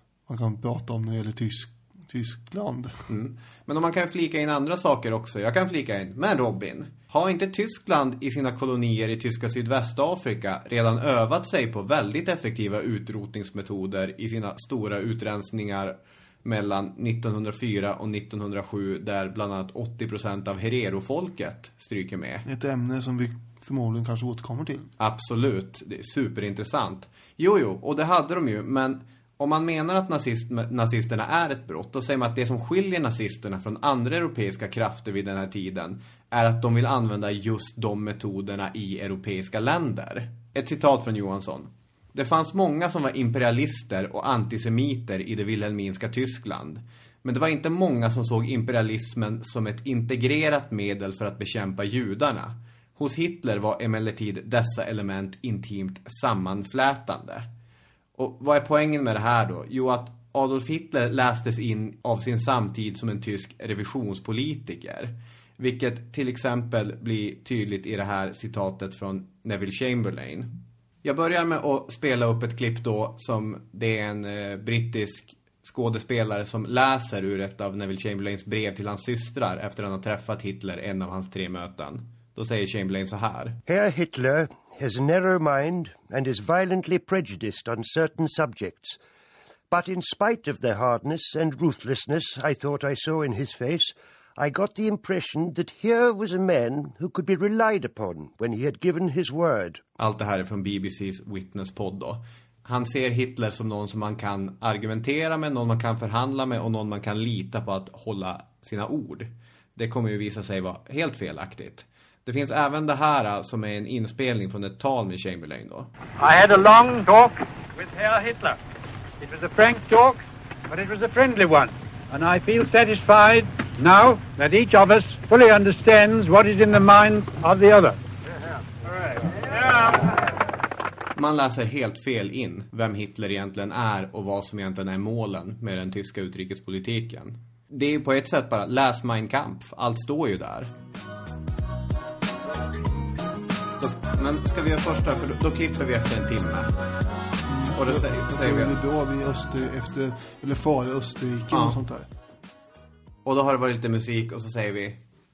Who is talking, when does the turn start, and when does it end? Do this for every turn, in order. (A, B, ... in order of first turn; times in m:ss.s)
0:00.3-0:02.9 A
0:03.1-0:22.4 B
0:22.4-0:24.8 A
0:25.0-0:57.5 B
0:58.2-1:23.6 B
1:23.6-1:29.0 C
1:29.7-1:39.8 C
1:40.0-1:55.9 B
1:56.2-1:58.6 D
1:59.2-2:08.0 D
2:11.1-2:20.7 B
2:23.8-2:26.7 B
2:27.4-2:32.1 A
2:27.8-2:28.8 B
2:31.5-2:31.8 B
2:33.2-2:35.0 B